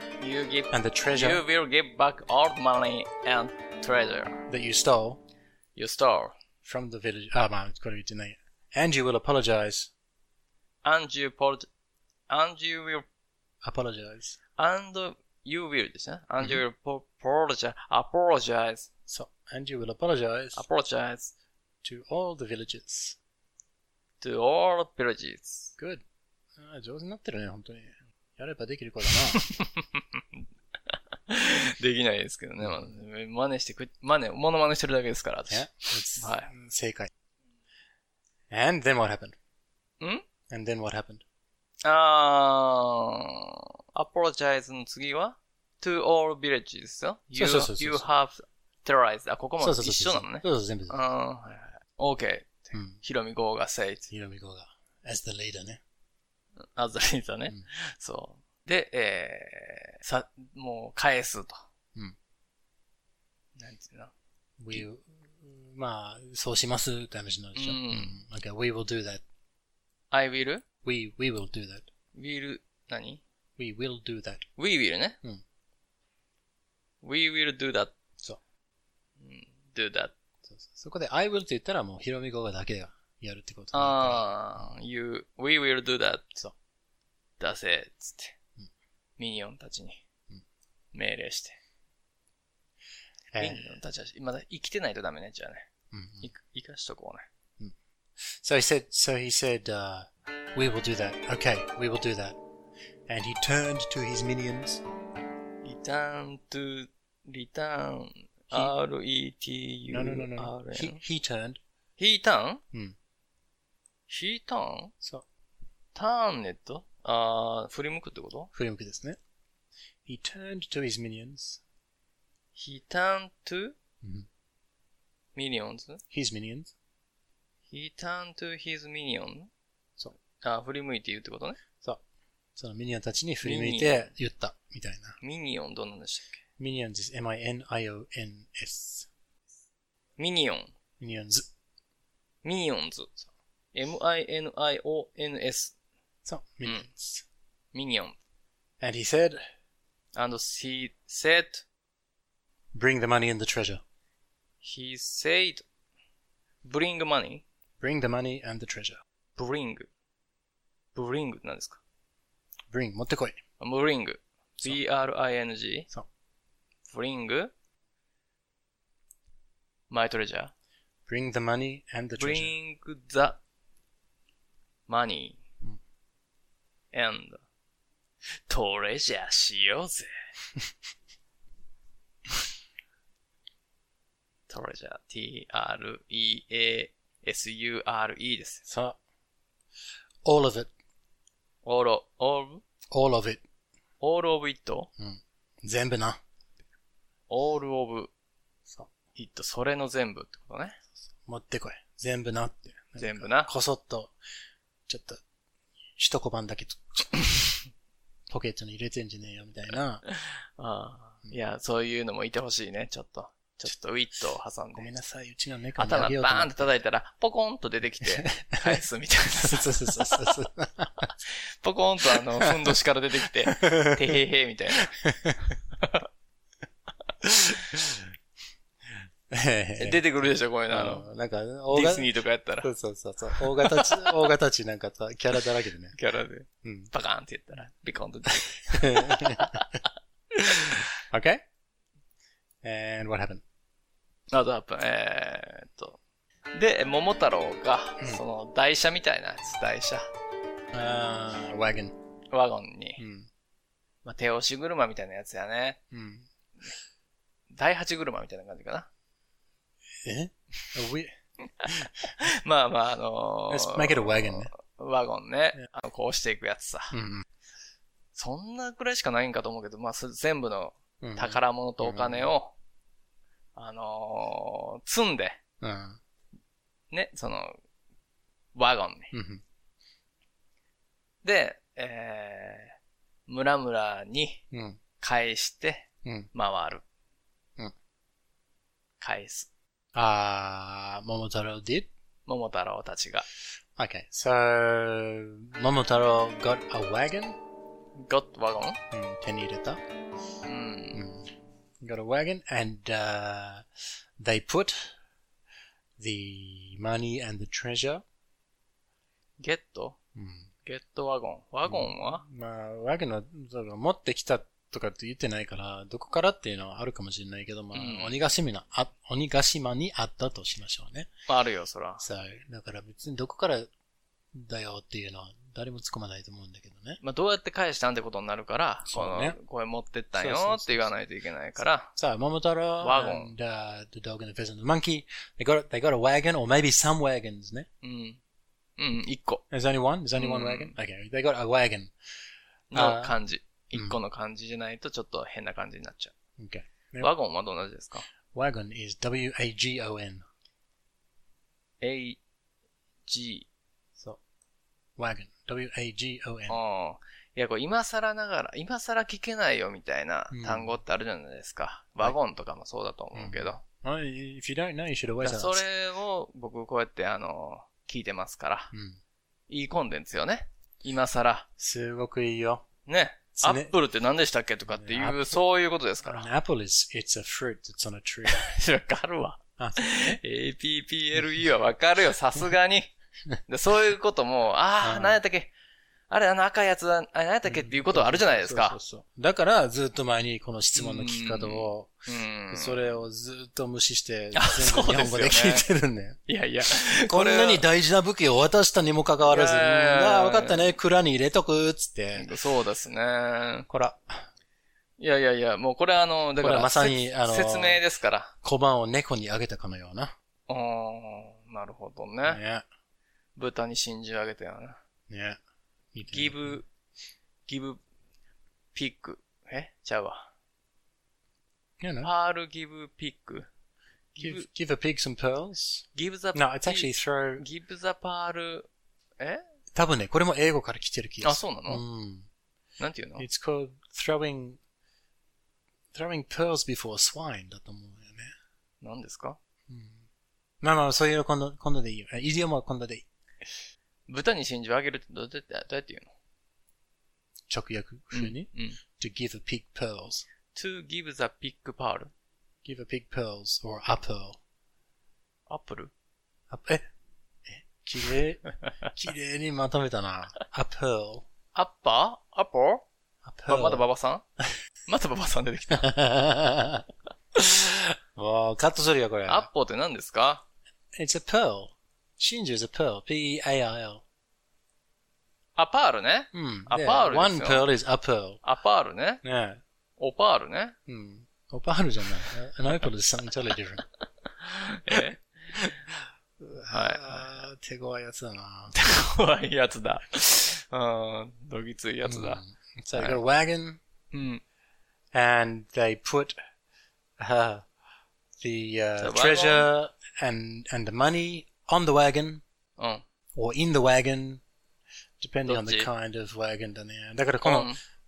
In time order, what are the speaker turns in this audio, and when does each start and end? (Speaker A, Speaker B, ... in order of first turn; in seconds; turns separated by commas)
Speaker A: 0.2-4.4, Speaker B: 0.7-1.4, Speaker B: 4.5-5.2, Speaker A: 5.8-6.3, Speaker B: 6.6-9.9, Speaker A: 10.8-11.7, Speaker A: 12.3-13.1, Speaker B: 13.6-14.4, Speaker A: 14.6-18.9, Speaker B: 19.1-20.6, Speaker A: 20.6-21.3, Speaker B: 21.8-23.2, Speaker A: 24.2-25.7, Speaker B: 25.8-26.0, Speaker B: 26.6-29.4, Speaker A: 29.3-30.4, Speaker A: 30.9-35.6, Speaker B: 35.5-37.1, Speaker A: 36.2-36.5, Speaker B: 38.5-39.4, Speaker B: 40.5-41.2, Speaker A: 41.8-54.1, Speaker B: 47.3-48.0, Speaker B: 49.6-51.0, Speaker B: 52.7-53.0, Speaker B: 54.1-55.8, Speaker A: 56.6-61.6, Speaker A: 63.6-64.1, Speaker B: 64.6-69.2, Speaker A: 67.5-68.2, Speaker A: 70.1-70.6, Speaker B: 70.8-71.9, Speaker A: 72.1-73.2, Speaker B: 73.6-74.4, Speaker A: 74.6-75.2, Speaker A: 77.0-77.9, Speaker A: 79.2-80.1, Speaker B: 80.5-84.7, Speaker A: 83.7-86.3, Speaker A: 87.4-88.3, Speaker A: 89.2-90.0, Speaker A: 90.9-91.6, Speaker B: 93.3-93.7, Speaker A: 93.4-95.7, Speaker B: 95.9-96.3, Speaker A: 96.2-97.2, Speaker B: 97.6-102.4, Speaker B: 103.1-104.8, Speaker A: 105.6-111.0, Speaker B: 109.9-111.6, Speaker A: 112.0-112.6, Speaker A: 114.1-114.9, Speaker A: 115.9-118.5, Speaker B: 118.5-119.2, Speaker B: 120.0-121.6, Speaker A: 122.5-123.7, Speaker B: 124.0-124.3, Speaker A: 125.3-126.0, Speaker B: 126.1-126.7, Speaker A: 127.7-129.5, Speaker A: 130.4-131.6, Speaker B: 132.6-135.2, Speaker A: 133.4-134.1, Speaker A: 135.2-136.4, Speaker B: 136.6-139.1, Speaker A: 140.2-140.7, Speaker B: 141.0-141.5, Speaker A: 142.4-143.1, Speaker A: 143.7-145.7, Speaker B: 146.2-147.2, Speaker A: 147.7-148.2, Speaker B: 148.8-149.4, Speaker A: 150.1-151.6, Speaker B: 152.7-153.8, Speaker A: 154.6-155.6, Speaker A: 156.6-157.4, Speaker B: 157.8-159.0, Speaker A: 159.3-159.9, Speaker A: 160.9-161.8, Speaker B: 162.7-163.4, Speaker A: 163.6-165.9, Speaker A: 166.9-167.5, Speaker A: 169.9-170.5, Speaker B: 171.1-172.5, Speaker A: 172.2-173.4, Speaker A: 174.9-175.4, Speaker A: 176.9-177.4, Speaker A: 178.5-180.1, Speaker A: 184.5-188.6, Speaker B: 188.7-189.0, Speaker B: 190.2-190.7, Speaker A: 191.6-192.6, Speaker B: 192.9-193.4, Speaker A: 194.0-194.9, Speaker B: 195.0-196.2, Speaker A: 197.3-198.1, Speaker A: 199.1-200.8, Speaker B: 201.2-204.1, Speaker A: 203.0-203.5, Speaker B: 204.9-205.2, Speaker B: 206.0-207.1, Speaker B: 208.3-210.0, Speaker A: 210.1-214.9, Speaker B: 214.7-216.7, Speaker A: 215.8-220.3, Speaker B: 218.0-218.8, Speaker B: 219.4-221.1, Speaker A: 221.3-224.9, Speaker B: 222.1-222.7, Speaker B: 223.4-224.1, Speaker B: 224.8-225.5, Speaker A: 225.8-226.1, Speaker B: 227.2-228.1, Speaker B: 229.3-235.9, Speaker A: 229.8-231.1, Speaker A: 231.7-232.7, Speaker A: 233.4-234.2, Speaker A: 235.9-239.8, Speaker B: 236.6-236.9, Speaker B: 238.7-239.7, Speaker B: 240.4-241.4, Speaker B: 242.6-243.4, Speaker A: 244.3-246.0, Speaker A: 246.5-250.1, Speaker B: 250.7-251.9, Speaker A: 252.3-253.0, Speaker B: 253.0-253.3, Speaker A: 254.0-255.8, Speaker B: 255.9-256.3, Speaker A: 257.5-258.9, Speaker B: 260.0-261.1, Speaker A: 261.6-266.9, Speaker B: 263.5-264.5, Speaker B: 266.9-267.2, Speaker A: 268.1-272.5, Speaker B: 271.0-272.3, Speaker A: 273.5-275.4, Speaker B: 275.6-276.0, Speaker A: 276.9-277.6, Speaker A: 278.5-279.1, Speaker B: 279.1-279.4, Speaker A: 281.2-282.7, Speaker A: 283.3-284.4, Speaker B: 284.5-284.8, Speaker A: 285.0-286.8, Speaker B: 286.0-286.3, Speaker A: 289.0-289.5, Speaker B: 289.9-291.9, Speaker A: 292.2-293.3, Speaker B: 293.8-297.4, Speaker A: 298.0-298.8, Speaker B: 298.9-299.8, Speaker A: 300.4-301.1, Speaker B: 300.9-301.3, Speaker B: 301.8-303.7, Speaker B: 304.2-304.9, Speaker B: 306.0-308.0, Speaker A: 309.4-310.0, Speaker B: 310.1-310.5, Speaker A: 310.6-312.2, Speaker B: 311.6-321.1, Speaker A: 317.7-318.1, Speaker A: 321.3-322.0, Speaker B: 322.0-323.7, Speaker B: 324.3-327.0, Speaker A: 327.0-331.9, Speaker B: 328.9-329.4, Speaker B: 330.1-330.9, Speaker B: 331.9-337.7, Speaker A: 332.8-333.3, Speaker A: 337.8-338.2, Speaker A: 338.8-339.4, Speaker B: 339.5-341.9, Speaker A: 340.2-340.7, Speaker A: 342.7-346.1, Speaker B: 342.7-343.2, Speaker B: 346.4-347.1, Speaker A: 347.0-348.1, Speaker B: 348.3-350.2, Speaker A: 351.8-352.2, Speaker A: 353.1-353.5, Speaker B: 355.0-356.6, Speaker A: 356.5-363.6, Speaker B: 360.3-360.8, Speaker B: 363.1-365.6, Speaker A: 365.2-368.7, Speaker B: 368.7-369.0, Speaker A: 369.5-371.5, Speaker B: 371.6-372.6, Speaker A: 372.9-376.3, Speaker B: 373.4-373.7, Speaker B: 374.7-375.4, Speaker B: 376.0-378.5, Speaker A: 378.2-382.9, Speaker A: 383.5-385.5, Speaker B: 384.8-385.2, Speaker A: 386.1-388.8, Speaker B: 387.4-391.9, Speaker A: 390.8-392.9, Speaker B: 392.5-396.2, Speaker A: 394.3-395.6, Speaker A: 396.3-397.6, Speaker B: 396.7-402.3, Speaker A: 399.3-400.7, Speaker A: 402.1-403.7, Speaker B: 403.7-404.3, Speaker A: 405.0-408.3, Speaker B: 406.4-407.8, Speaker B: 408.4-410.1, Speaker A: 410.5-412.4, Speaker B: 412.2-412.6, Speaker A: 413.4-414.8, Speaker B: 415.1-415.4, Speaker B: 415.9-416.6, Speaker A: 416.1-416.7, Speaker A: 417.5-417.8, Speaker A: 418.7-420.3, Speaker B: 421.8-422.1, Speaker A: 422.0-423.5, Speaker A: 424.1-424.5, Speaker B: 424.2-427.4, Speaker A: 425.9-428.7, Speaker B: 429.7-432.3, Speaker A: 431.2-431.8, Speaker A: 432.8-433.2, Speaker B: 433.2-434.6, Speaker B: 435.9-438.3, Speaker A: 438.8-439.4, Speaker B: 439.7-440.0, Speaker B: 440.6-443.0, Speaker A: 444.1-446.1, Speaker B: 447.5-450.2, Speaker A: 448.1-448.8, Speaker A: 450.5-452.1, Speaker B: 452.6-454.4, Speaker A: 455.5-455.9, Speaker B: 456.5-456.9, Speaker B: 457.5-461.2, Speaker A: 461.5-462.8, Speaker B: 463.2-463.8, Speaker A: 463.5-464.2, Speaker A: 464.9-465.9, Speaker B: 465.7-469.5, Speaker A: 469.3-470.4, Speaker B: 470.9-474.0, Speaker A: 475.6-477.6, Speaker B: 476.3-478.4, Speaker A: 478.4-479.2, Speaker B: 479.2-479.6, Speaker A: 480.0-480.8, Speaker B: 480.9-483.8, Speaker A: 484.4-485.2, Speaker B: 484.9-488.7, Speaker A: 486.7-487.3, Speaker A: 488.7-492.4, Speaker B: 492.0-493.8, Speaker A: 492.9-493.2, Speaker A: 494.1-494.4, Speaker B: 495.1-496.4, Speaker B: 497.2-497.6, Speaker B: 498.4-502.4, Speaker A: 499.0-499.7, Speaker A: 502.8-503.0, Speaker B: 503.3-504.4, Speaker B: 505.2-507.7, Speaker A: 505.4-505.9, Speaker A: 507.4-507.8